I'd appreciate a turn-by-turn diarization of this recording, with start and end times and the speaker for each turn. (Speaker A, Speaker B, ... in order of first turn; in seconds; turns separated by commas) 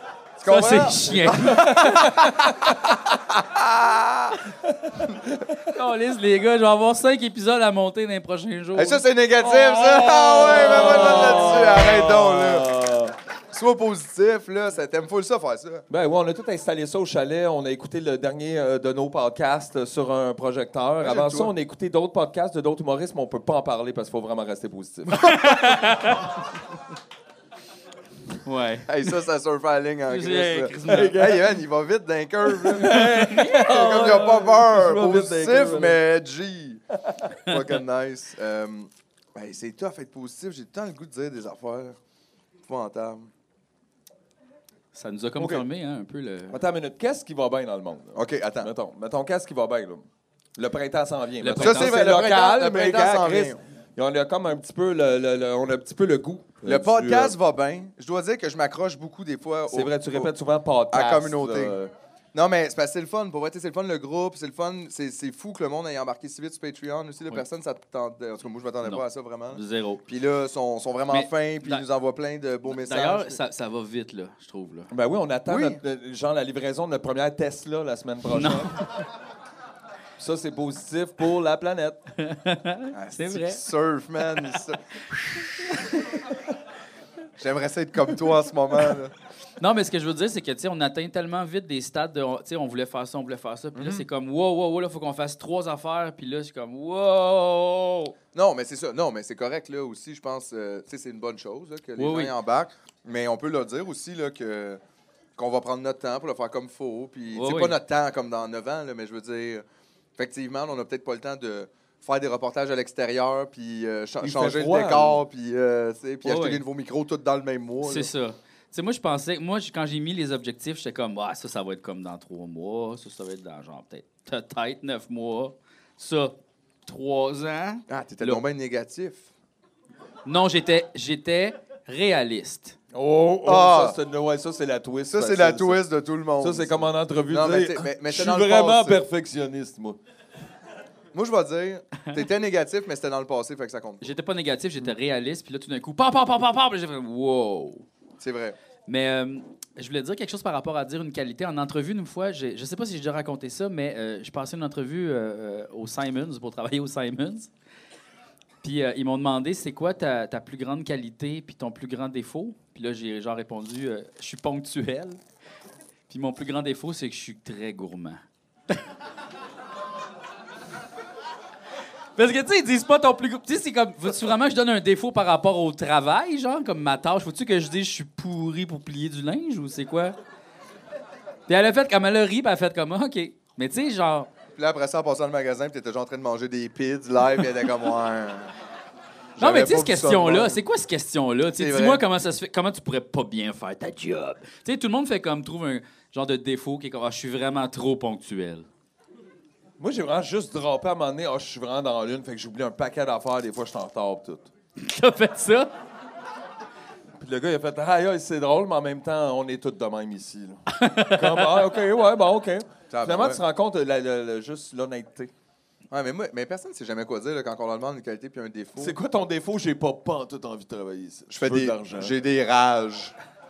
Speaker A: 0.4-4.4, Speaker B: 0.5-2.1, Speaker C: 1.3-2.7, Speaker C: 4.7-5.6, Speaker A: 5.0-5.3, Speaker B: 5.7-9.0, Speaker A: 8.7-12.7, Speaker C: 9.4-13.1, Speaker A: 13.5-15.8, Speaker C: 15.9-25.3, Speaker A: 21.0-21.5, Speaker A: 25.2-25.6, Speaker B: 25.2-26.2, Speaker B: 28.4-28.9, Speaker A: 28.9-36.8, Speaker B: 30.1-31.2, Speaker C: 30.9-31.6, Speaker C: 32.5-36.0, Speaker B: 32.8-33.6, Speaker C: 36.9-37.3, Speaker A: 37.5-42.0, Speaker A: 42.7-43.3, Speaker B: 44.9-46.6, Speaker C: 45.4-45.6, Speaker C: 46.5-50.1, Speaker A: 48.1-48.7, Speaker C: 50.6-57.4, Speaker B: 51.4-52.0, Speaker A: 51.6-53.6, Speaker A: 56.6-60.3, Speaker C: 59.7-61.9, Speaker A: 60.9-61.8, Speaker A: 62.3-73.4, Speaker B: 68.8-70.0, Speaker B: 71.1-71.9, Speaker B: 72.7-74.9, Speaker C: 74.9-78.8, Speaker A: 75.5-75.8, Speaker B: 78.3-78.9, Speaker C: 80.2-82.0, Speaker B: 82.2-83.6, Speaker A: 82.9-84.8, Speaker B: 85.4-85.9, Speaker A: 87.4-89.1, Speaker B: 89.6-98.1, Speaker A: 93.7-94.0, Speaker A: 98.3-104.8, Speaker B: 102.0-102.3, Speaker A: 105.4-109.6, Speaker B: 107.3-107.8, Speaker A: 110.2-118.1, Speaker C: 114.2-115.2, Speaker B: 116.2-116.6, Speaker B: 117.8-126.3, Speaker B: 126.9-128.4, Speaker A: 127.9-129.3, Speaker B: 130.2-132.8, Speaker C: 132.9-135.8, Speaker A: 133.4-134.0, Speaker A: 135.1-139.0, Speaker C: 136.4-140.0, Speaker A: 141.1-144.0, Speaker B: 144.0-147.9, Speaker A: 148.2-148.6, Speaker B: 148.9-157.5, Speaker B: 158.6-165.2, Speaker B: 166.1-168.7, Speaker B: 172.2-180.2, Speaker B: 181.5-184.3, Speaker A: 184.6-188.5, Speaker A: 189.4-190.6, Speaker B: 189.4-198.7, Speaker A: 191.5-192.0, Speaker C: 199.8-204.5, Speaker B: 204.8-205.7, Speaker C: 207.2-215.3, Speaker B: 210.7-211.6, Speaker A: 212.9-213.4, Speaker A: 215.9-219.0, Speaker C: 218.8-222.1, Speaker A: 221.3-223.1